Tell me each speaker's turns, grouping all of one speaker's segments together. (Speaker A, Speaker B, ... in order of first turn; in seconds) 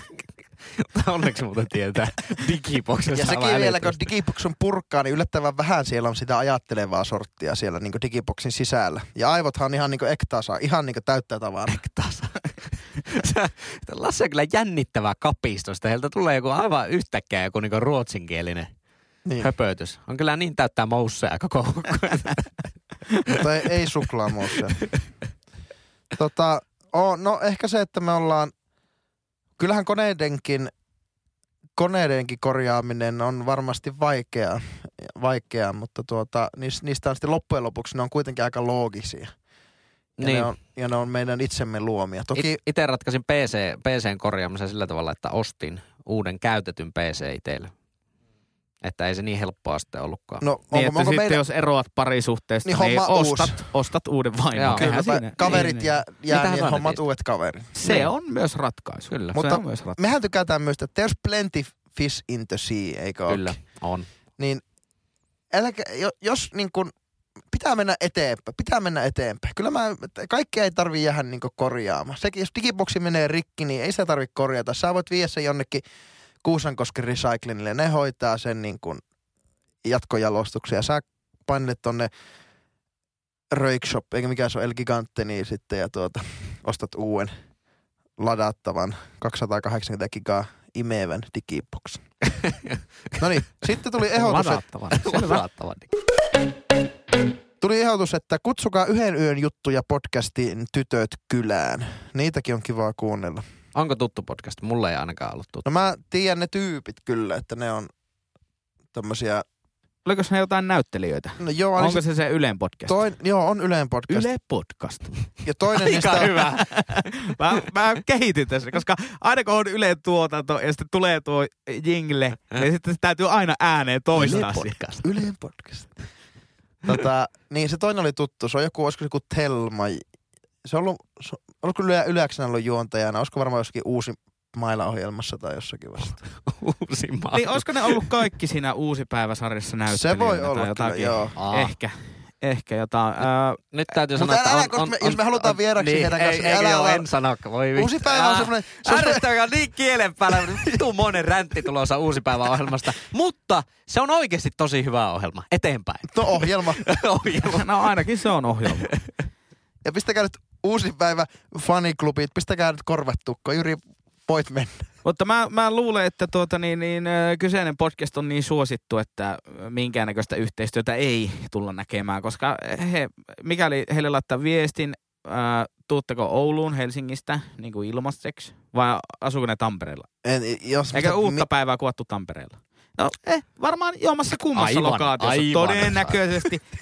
Speaker A: 0.8-4.1, 11.7-12.5, 13.0-18.7, 19.4-22.5, 24.5-24.9, 40.2-40.5, 42.3-47.7, 48.8-50.5, 54.6-54.9, 55.4-55.7, 56.3-57.0, 57.8-58.1, 59.1-59.4, 63.3-64.1, 92.4-93.2, 94.9-95.9, 103.8-105.7, 115.8-117.1, 124.2-125.1, 136.3-138.1, 141.4-141.7, 143.7-157.7, 184.6-186.5
Speaker B: 3.1-11.8, 19.2-19.5, 23.3-24.8, 26.2-28.5, 29.6-30.7, 31.8-39.3, 40.2-42.6, 50.4-51.4, 52.7-53.6, 54.7-57.7, 59.4-63.6, 65.5-66.9, 67.5-75.8, 76.4-79.0, 79.8-82.1, 83.5-87.3, 88.2-92.0, 93.2-94.6, 97.6-103.4, 105.7-107.9, 108.9-109.4, 111.4-112.0, 112.9-114.3, 115.4-116.4, 125.0-125.9, 126.9-130.0, 130.6-136.2, 139.9-141.3, 144.2-147.1, 147.8-149.2, 150.5-150.8, 156.1-156.8, 159.8-164.8, 180.2-181.5
Speaker C: 50.7-55.9, 57.8-60.0, 94.1-95.4, 110.0-113.0, 114.1-115.2, 116.1-124.8, 137.3-143.6, 157.4-158.9, 165.0-180.1, 180.9-186.6